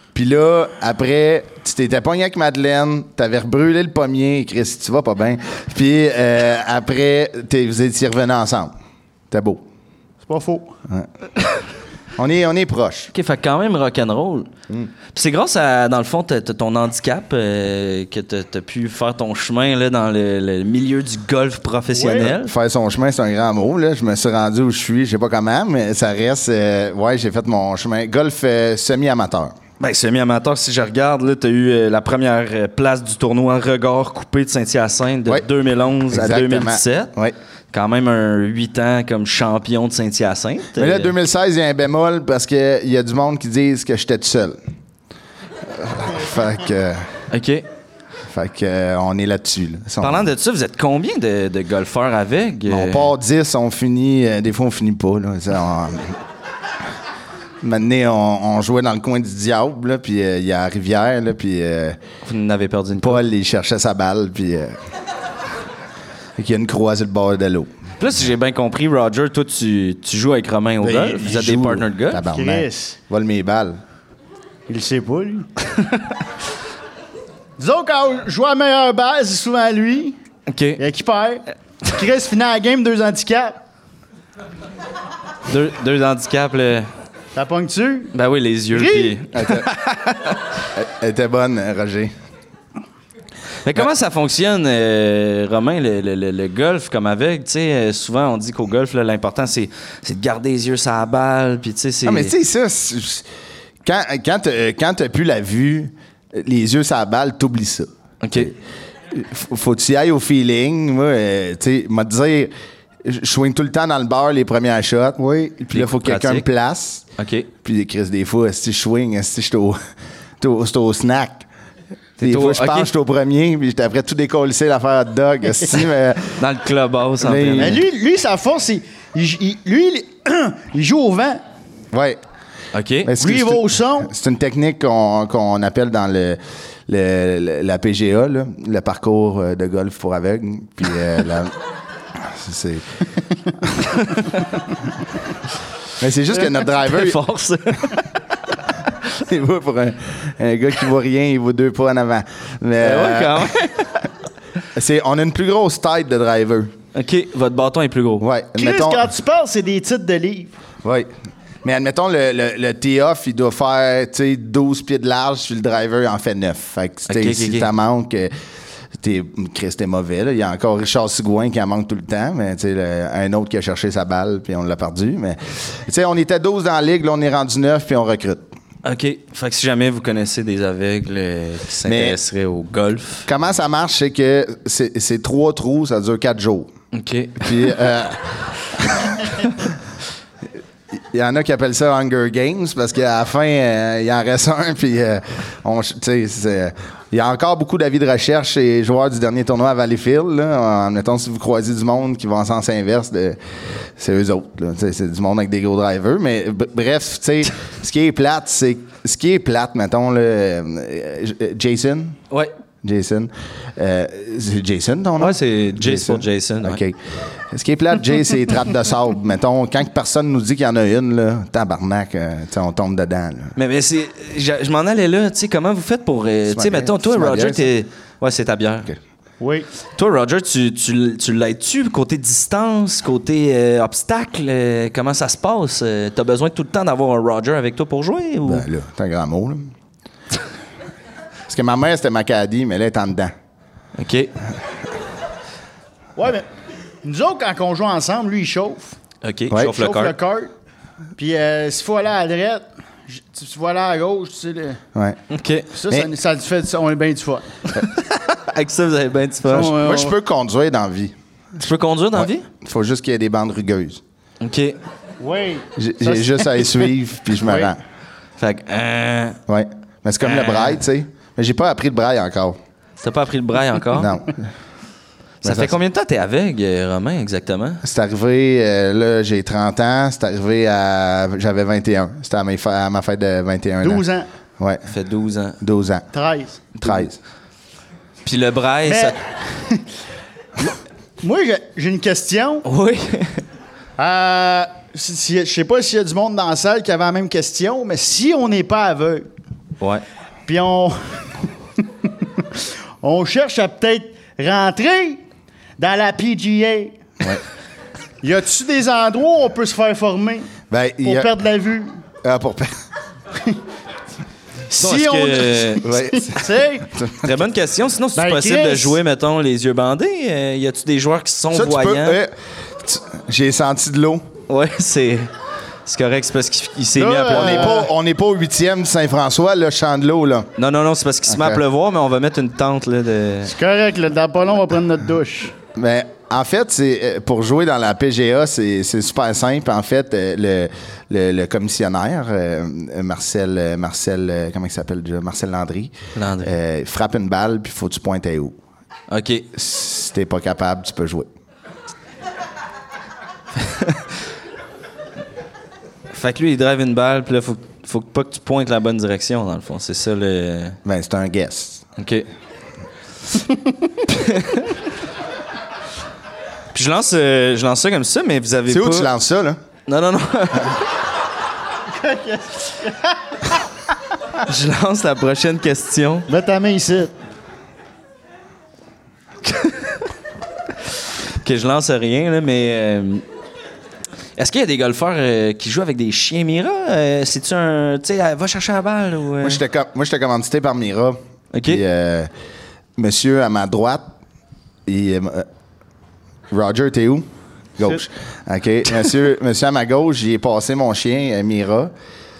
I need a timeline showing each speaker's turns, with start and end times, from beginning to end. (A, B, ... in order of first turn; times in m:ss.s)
0:00.1-0:08.7 A
0:09.3-0:09.6 A
0:10.2-0:10.7 B
0:12.2-0:13.1 A
0:13.1-0:14.5 C
0:15.1-0:22.5 C
0:21.9-0:22.3 B
0:22.2-0:29.6 A
0:29.8-0:37.1 C
0:36.1-0:37.3 A
0:37.7-0:41.1 C
0:40.8-0:44.6 A
0:45.6-0:47.1 A
0:47.3-0:47.6 C
0:48.3-0:50.2 A
0:50.0-0:53.1 C
0:52.7-0:56.2 A
0:57.6-1:02.0 A
1:02.2-1:03.2 C
1:03.0-1:04.8 A
1:06.4-1:07.7 A
1:08.0-1:12.3 C
1:10.8-1:13.8 A
1:12.3-1:13.0 B
1:14.7-1:15.6 B
1:17.6-1:20.2 B
1:20.5-1:20.8 C
1:20.8-1:23.6 B
1:25.5-1:26.9 C
1:27.3-1:28.1 B
1:28.1-1:30.4 C
1:28.7-1:29.2 B
1:29.3-1:29.7 A
1:30.7-1:32.1 A
1:33.6-1:42.3 C
1:42.0-1:43.2 A
1:43.8-1:48.5 A
1:48.2-1:48.5 C
1:49.1-1:52.5 A
1:53.0-1:57.0 A
1:55.2-1:55.5 B
1:55.7-1:56.4 C
1:57.2-1:57.5 C
1:57.6-1:59.8 A
2:00.4-2:01.4 A
2:02.2-2:02.9 C
2:02.2-2:06.4 A
2:06.4-2:07.8 C
2:07.2-2:07.8 A
2:07.6-2:11.4 B
2:11.9-2:12.2 A
2:12.7-2:13.1 C
2:13.0-2:21.6 A
2:13.2-2:14.1 B
2:22.1-2:23.0 A
2:24.0-2:24.3 C
2:26.0-2:27.2 A
2:26.4-2:28.2 C
2:29.0-2:33.5 A
2:32.8-2:34.1 C
2:34.7-2:36.7 A
2:36.9-2:38.2 C
2:38.2-2:39.1 A
2:38.6-2:40.5 B
2:40.8-2:41.1 A
2:41.6-2:48.3 A
2:47.1-2:47.7 C
2:49.0-2:58.5 A
2:58.8-3:03.2 C
3:01.8-3:02.2 A
3:03.2-3:06.7 A
3:06.9-3:07.8 C
3:07.4-3:09.7 A
3:11.0-3:32.2 A
3:32.8-3:43.6 A
3:35.2-3:36.8 C
3:43.6-3:48.9 C
3:46.5-3:47.7 A
3:49.4-3:49.7 B
3:50.0-3:58.7 C
3:58.4-3:59.7 A
4:01.5-4:03.3 A
4:04.0-4:04.3 C
4:06.2-4:06.4 B
4:07.0-4:09.0 B
4:09.2-4:10.2 C
4:09.5-4:09.8 A
4:09.7-4:10.5 B
4:11.2-4:14.8 B
4:14.9-4:15.2 A
4:15.3-4:15.7 C
4:15.7-4:17.5 B
4:17.7-4:19.8 C
4:19.5-4:20.1 B
4:19.5-4:21.1 A
4:21.6-4:22.4 C
4:22.1-4:24.0 A
4:24.4-4:24.8 C
4:25.2-4:26.8 B
4:25.8-4:27.8 A
4:27.4-4:27.7 B
4:28.4-4:29.4 C
4:29.5-4:32.6 A
4:30.2-4:30.8 C
4:33.0-4:34.1 C
4:34.0-4:34.5 A
4:35.4-4:37.8 C
4:35.4-4:35.8 A
4:37.8-4:44.0 A
4:43.8-4:44.3 B
4:44.6-4:44.9 A
4:44.9-4:45.6 C
4:45.6-4:46.0 A
4:46.1-4:46.6 B
4:46.8-4:47.1 C
4:46.8-4:47.2 A
4:48.2-4:49.2 C
4:48.8-4:49.8 B
4:51.2-4:52.6 B
4:52.6-4:53.4 C
4:54.0-4:59.3 B
5:00.5-5:01.2 B
5:01.8-5:05.2 B
5:05.8-5:07.0 B
5:08.2-5:10.5 B
5:10.7-5:11.3 A
5:11.0-5:12.0 B
5:12.2-5:12.7 A
5:14.7-5:16.9 B
5:14.8-5:15.9 C
5:15.8-5:17.3 A
5:17.2-5:22.2 C
5:18.1-5:19.0 B
5:21.5-5:24.3 A
5:24.5-5:25.3 C
5:25.8-5:27.8 C
5:27.0-5:27.9 B
5:27.3-5:30.5 A
5:30.6-5:33.5 C
5:31.3-5:31.6 A
5:33.4-5:35.5 B
5:35.7-5:48.6 A
5:46.2-5:46.5 C
5:49.1-5:49.5 C
5:49.5-5:51.3 A
5:53.6-5:54.0 C
5:56.1-6:00.8 C
6:00.8-6:01.8 A
6:02.0-6:02.2 C
6:04.1-6:04.8 C
6:06.7-6:09.1 C
6:08.7-6:09.6 A
6:09.9-6:10.9 C
6:11.9-6:13.6 B
6:14.4-6:16.3 C
6:16.3-6:17.1 B
6:19.5-6:19.9 C
6:21.4-6:23.2 C
6:24.4-6:29.6 C
6:29.4-6:32.3 A
6:31.5-6:31.8 C
6:33.0-6:34.0 A
6:34.8-6:35.5 A
6:36.5-6:37.2 A
6:37.8-6:41.9 A